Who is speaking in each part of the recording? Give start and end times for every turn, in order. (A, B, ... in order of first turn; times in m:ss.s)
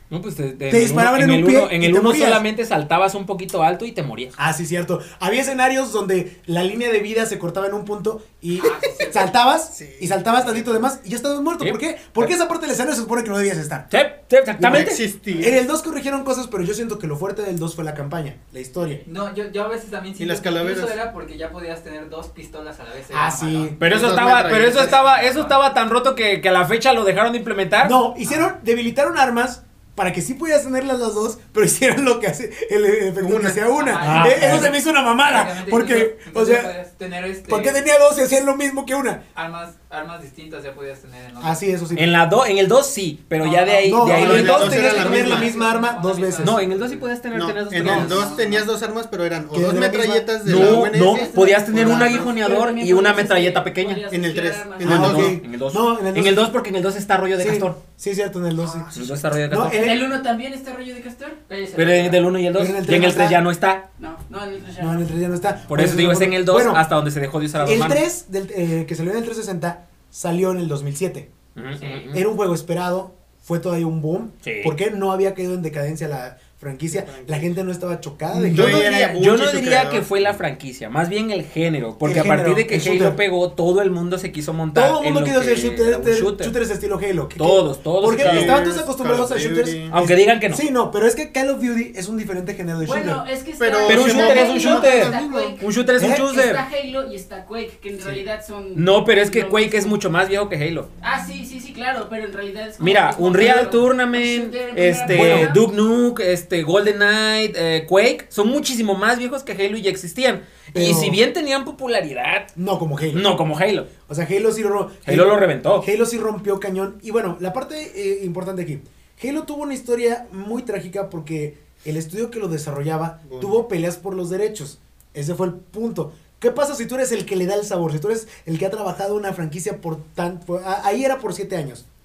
0:00.1-0:04.4 A
0:00.7-0:02.4 B
0:04.4-0:13.9 B
0:08.6-0:09.3 C
0:09.7-0:10.7 D
0:11.6-0:12.3 A
0:13.9-0:15.0 A
0:14.6-0:19.0 B
0:14.6-0:15.6 D
0:19.0-0:25.6 C
0:20.2-0:21.0 D
0:23.1-0:23.8 B
0:23.8-0:25.0 D
0:23.8-0:28.0 A
0:27.8-0:36.7 B
0:33.2-0:33.7 D
0:33.8-0:37.8 C
0:34.0-0:34.8 A
0:37.5-0:39.2 B
0:39.4-0:41.7 C
0:41.4-0:42.2 B
0:42.0-0:45.0 A
0:43.4-0:47.1 C
0:43.8-0:46.6 B
0:44.0-0:45.6 D
0:46.4-0:48.3 A
0:47.3-0:52.4 D
0:47.8-0:48.7 C
0:49.5-0:51.0 B
0:50.4-0:54.0 A
0:50.9-0:55.0 E
0:54.1-0:55.4 D
0:54.8-0:57.8 A
0:54.8-0:56.5 B
0:57.4-1:00.2 B
0:58.9-1:00.0 A
0:59.7-1:01.4 E
1:01.5-1:02.3 C
1:01.8-1:03.8 A
1:02.5-1:03.4 B
1:04.0-1:05.1 E
1:04.8-1:06.9 B
1:05.7-1:08.0 A
1:07.6-1:11.3 B
1:11.6-1:12.3 A
1:12.1-1:18.9 B
1:14.4-1:14.8 A
1:16.9-1:17.5 D
1:18.3-1:26.6 A
1:18.4-1:20.1 D
1:22.0-1:23.2 B
1:24.7-1:33.2 B
1:27.4-1:28.6 A
1:28.1-1:30.0 D
1:29.9-1:30.6 A
1:32.8-1:40.0 E
1:33.6-1:35.6 D
1:33.8-1:36.6 A
1:33.9-1:34.3 B
1:36.0-1:36.2 B
1:38.7-1:40.9 A
1:41.0-1:45.7 E
1:42.8-1:52.5 A
1:45.1-1:45.5 B
1:50.7-1:51.2 B
1:52.6-1:53.3 B
1:53.1-1:53.9 A
1:54.1-2:11.8 B
1:55.0-1:55.9 A
2:03.3-2:03.6 D